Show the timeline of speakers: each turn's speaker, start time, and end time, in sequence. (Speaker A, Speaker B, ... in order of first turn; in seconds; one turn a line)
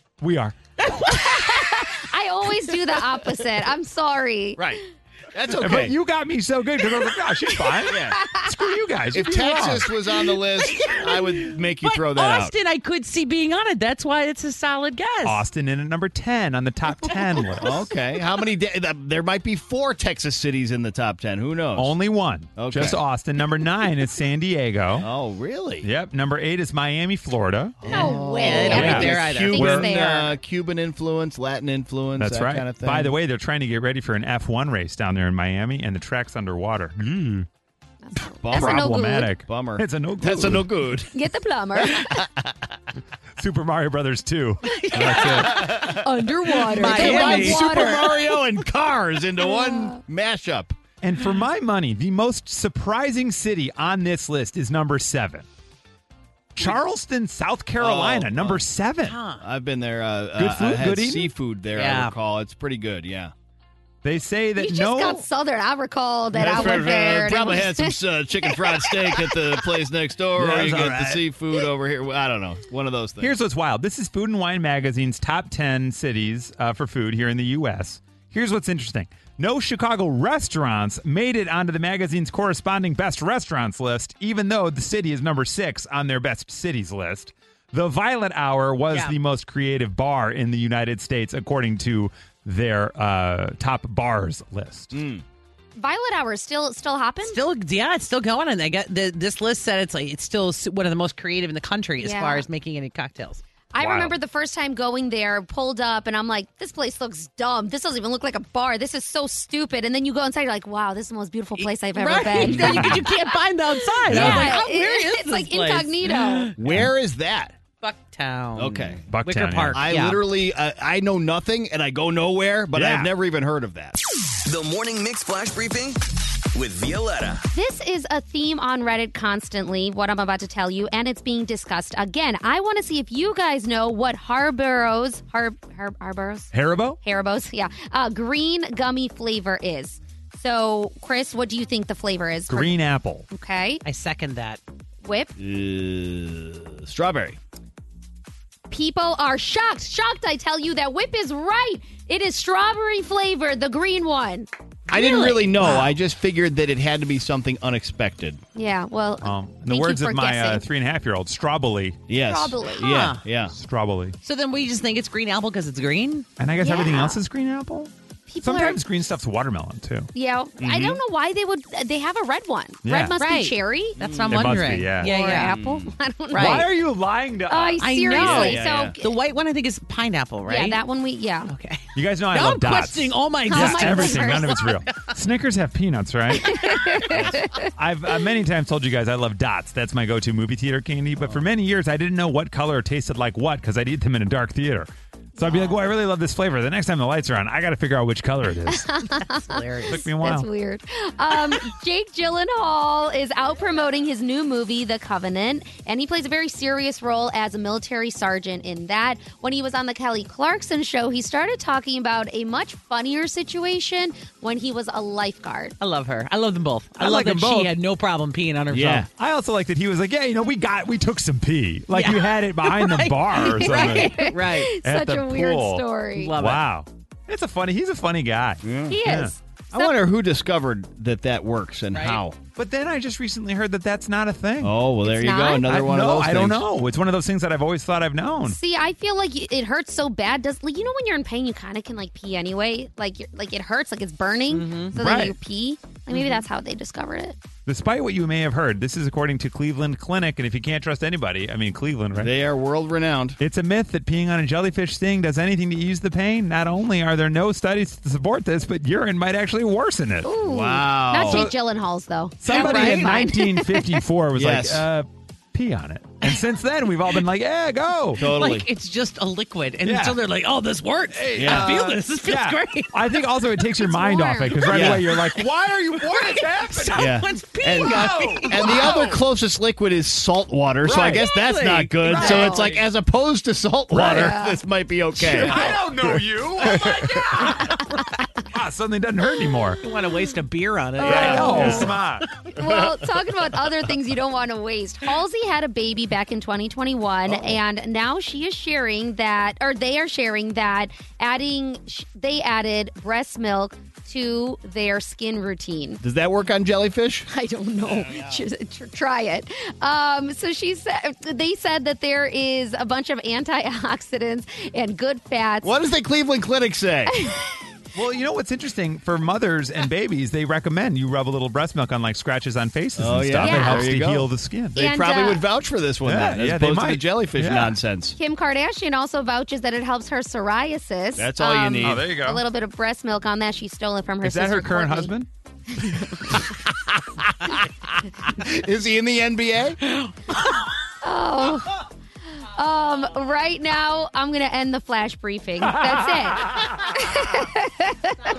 Speaker A: 0.2-0.6
Speaker B: 0.8-1.9
Speaker C: 1.1-4.7
Speaker B: 2.6-3.1
Speaker D: 4.6-6.0
Speaker A: 5.6-9.9
Speaker D: 7.9-8.2
Speaker D: 9.1-12.5
Speaker B: 10.3-15.4
Speaker A: 15.2-17.9
Speaker D: 17.6-22.0
Speaker A: 21.8-25.1
Speaker D: 22.5-23.0
Speaker D: 25.0-25.9
Speaker A: 25.8-27.9
Speaker D: 27.8-33.1
Speaker C: 27.9-30.3
Speaker B: 27.9-29.8
Speaker A: 28.7-29.9
Speaker A: 32.2-37.5
Speaker C: 38.0-39.3
Speaker D: 38.4-41.1
Speaker A: 38.5-40.7
Speaker C: 41.1-42.2
Speaker D: 42.0-42.5
Speaker A: 43.4-45.7
Speaker B: 44.9-45.8
Speaker D: 45.2-46.2
Speaker C: 45.6-48.4
Speaker B: 46.5-48.0
Speaker D: 46.7-50.8
Speaker C: 49.4-50.0
Speaker A: 51.0-55.5
Speaker A: 56.5-59.2
Speaker D: 57.8-58.6
Speaker B: 59.0-59.5
Speaker D: 59.4-63.3
Speaker A: 60.4-61.3
Speaker B: 61.7-62.1
Speaker A: 64.0-65.2
Speaker C: 64.6-69.7
Speaker D: 66.3-73.3
Speaker B: 70.4-71.2
Speaker A: 70.4-70.8
Speaker A: 73.2-95.0
Speaker B: 88.9-89.1
Speaker D: 94.9-95.2
Speaker C: 95.8-97.4
Speaker B: 97.2-103.4
Speaker C: 102.0-102.5
Speaker C: 103.7-116.5
Speaker A: 103.8-104.1
Speaker B: 111.6-116.5
Speaker D: 112.4-112.8
Speaker A: 112.6-112.9
Speaker A: 114.1-114.5
Speaker D: 114.2-114.5
Speaker D: 116.6-117.6
Speaker A: 116.6-116.9
Speaker B: 117.8-120.2
Speaker D: 118.5-119.0
Speaker A: 119.1-119.8
Speaker D: 119.7-124.0
Speaker A: 122.7-123.1
Speaker E: 124.4-126.0
Speaker E: 126.5-127.4
Speaker C: 127.5-136.5
Speaker A: 136.5-137.0
Speaker C: 137.0-142.8
Speaker A: 142.5-143.3
Speaker C: 143.3-143.8
Speaker B: 143.8-144.6
Speaker C: 145.0-145.3
Speaker D: 145.4-147.4
Speaker C: 148.7-155.8
Speaker D: 154.9-158.4
Speaker C: 158.5-160.6
Speaker A: 159.2-162.0
Speaker D: 162.1-163.5
Speaker C: 162.2-163.0
Speaker B: 162.8-163.2
Speaker A: 163.5-164.2
Speaker B: 164.2-166.3
Speaker A: 166.4-167.9
Speaker C: 166.6-167.2
Speaker C: 168.3-168.8
Speaker A: 168.4-170.1
Speaker C: 170.1-174.0
Speaker D: 170.6-171.0
Speaker A: 172.8-173.2
Speaker B: 173.2-175.6
Speaker D: 174.0-174.7
Speaker A: 174.3-175.1
Speaker C: 174.9-176.7
Speaker D: 175.3-175.9
Speaker B: 176.3-176.7
Speaker A: 176.3-178.4
Speaker C: 177.5-179.1
Speaker B: 177.8-180.8
Speaker D: 178.2-178.9
Speaker C: 180.4-181.5
Speaker B: 181.5-184.8
Speaker A: 181.9-186.5
Speaker C: 183.4-184.7
Speaker C: 186.4-187.7
Speaker B: 186.7-186.9
Speaker D: 187.1-187.4
Speaker A: 187.8-198.9
Speaker B: 195.4-195.7
Speaker C: 198.7-215.8
Speaker B: 199.3-200.1
Speaker A: 199.9-200.5
Speaker B: 215.8-219.0
Speaker A: 217.0-217.7
Speaker D: 218.7-219.1
Speaker A: 219.0-224.3
Speaker B: 221.9-224.7
Speaker C: 223.4-226.3
Speaker A: 224.8-225.8
Speaker B: 226.1-226.6
Speaker A: 226.4-229.3
Speaker D: 228.6-229.0
Speaker C: 228.9-230.0
Speaker D: 229.7-232.4
Speaker B: 231.9-232.2
Speaker A: 232.5-234.8
Speaker D: 234.6-236.7
Speaker C: 235.0-235.7
Speaker A: 235.6-238.6
Speaker C: 238.4-247.3
Speaker B: 244.4-244.9
Speaker A: 244.9-245.3
Speaker B: 246.1-246.4
Speaker A: 247.7-252.3
Speaker D: 252.2-253.4
Speaker A: 253.4-260.3
Speaker C: 260.2-264.0
Speaker D: 260.4-261.5
Speaker A: 261.2-261.5
Speaker A: 262.4-268.2
Speaker B: 262.4-263.3
Speaker D: 264.3-264.8
Speaker D: 268.2-268.7
Speaker B: 268.2-273.1
Speaker A: 269.8-270.2
Speaker A: 271.1-279.2
Speaker D: 271.4-271.8
Speaker C: 273.8-274.9
Speaker D: 274.7-275.1
Speaker B: 275.1-275.4
Speaker B: 276.0-279.2
Speaker D: 277.0-286.1
Speaker A: 280.8-281.2
Speaker B: 281.0-282.9
Speaker C: 282.1-282.7
Speaker C: 283.9-284.6
Speaker B: 285.3-285.7
Speaker A: 285.3-287.8
Speaker A: 288.5-289.8
Speaker B: 289.8-292.4
Speaker C: 291.0-291.9
Speaker A: 291.0-292.2
Speaker D: 291.6-291.9
Speaker C: 292.5-306.0
Speaker D: 297.3-297.6
Speaker D: 306.0-307.3
Speaker C: 307.3-315.7
Speaker D: 307.8-308.4
Speaker D: 315.6-317.2
Speaker C: 317.1-317.4
Speaker A: 317.9-324.8
Speaker D: 323.0-328.2
Speaker C: 323.4-323.9
Speaker C: 324.8-325.5
Speaker A: 326.0-327.8
Speaker C: 328.2-335.1
Speaker D: 331.1-332.1
Speaker A: 331.8-332.4
Speaker A: 334.2-335.3
Speaker C: 335.8-336.4
Speaker D: 338.4-339.8
Speaker C: 341.0-341.8
Speaker C: 342.5-348.1